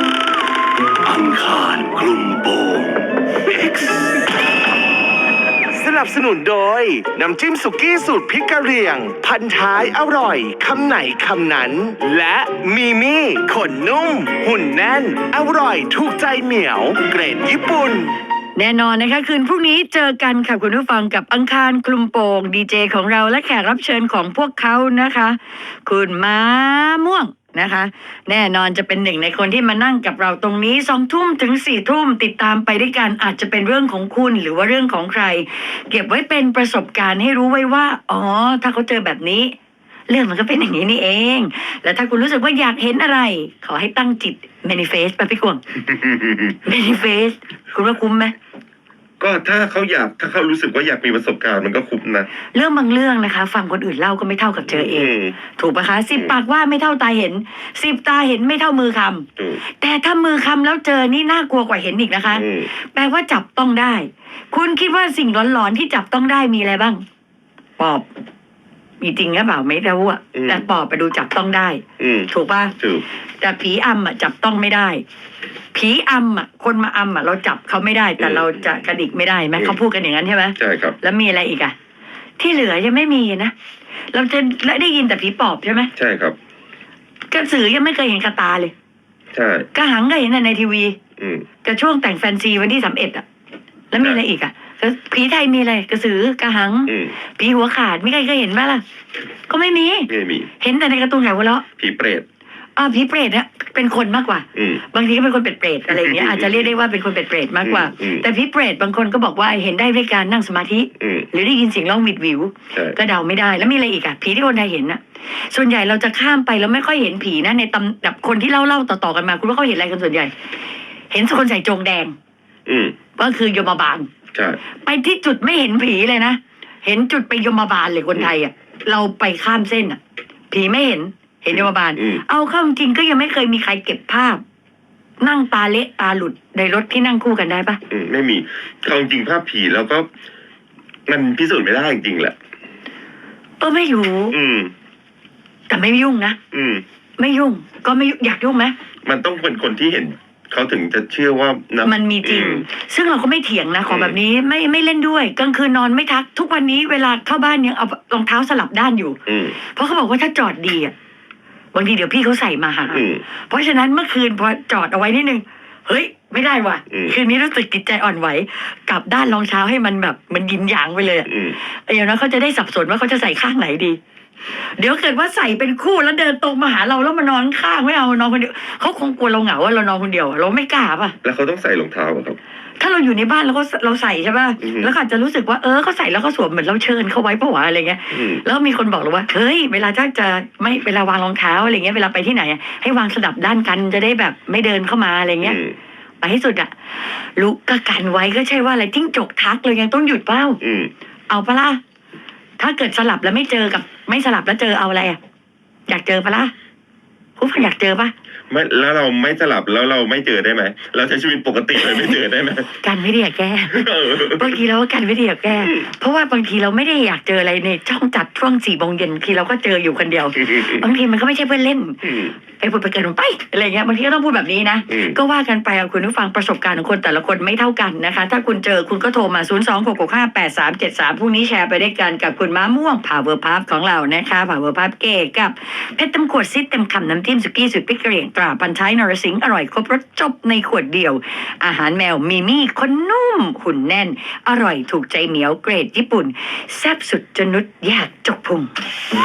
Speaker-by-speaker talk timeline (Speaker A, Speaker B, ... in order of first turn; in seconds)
Speaker A: 1.0-3.0
Speaker B: 5.7-18.1
Speaker C: 18.6-39.5, 40.1-45.6, 46.6-48.3, 52.5-67.0, 67.8-68.0, 69.0-72.7, 73.4-75.0, 75.7-81.7, 82.4-83.5, 84.1-85.9, 87.3-88.7, 89.7-91.0, 91.6-93.2, 93.9-98.8, 99.5-100.1, 100.6-101.6, 102.8-120.3, 121.1-122.1, 123.2-124.1, 124.8-130.0, 130.5-134.4, 135.2-137.8, 143.6-144.3, 145.7-146.4, 147.2-148.7, 151.8-160.9, 161.7-174.0, 174.5-181.2, 182.8-195.6, 196.2-196.7, 197.3-200.6, 201.3-201.8, 202.6-205.2, 205.9-206.5, 207.4-208.1, 211.8-212.1, 212.7-248.7
Speaker D: 45.9-46.6, 49.2-52.3, 54.7-55.4, 62.3-62.7, 70.3-70.6, 72.0-73.0, 78.2-78.7, 80.6-81.0, 86.0-86.3, 89.3-89.7, 91.2-91.5, 96.9-97.2, 100.1-100.5, 101.8-102.2, 104.5-104.8, 105.9-106.7, 107.6-108.2, 111.0-111.3, 122.7-122.9, 124.3-124.6, 131.5-132.2, 137.9-140.1, 141.1-142.3, 144.3-144.7, 146.5-146.8, 149.0-152.7, 153.8-154.2, 159.2-159.6, 162.9-163.2, 166.9-167.2, 171.2-171.6, 181.2-182.4, 184.6-184.9, 188.1-188.4, 195.4-195.8, 200.6-200.9, 208.5-212.7, 213.7-214.6, 215.6-215.8, 222.1-222.3, 224.9-225.2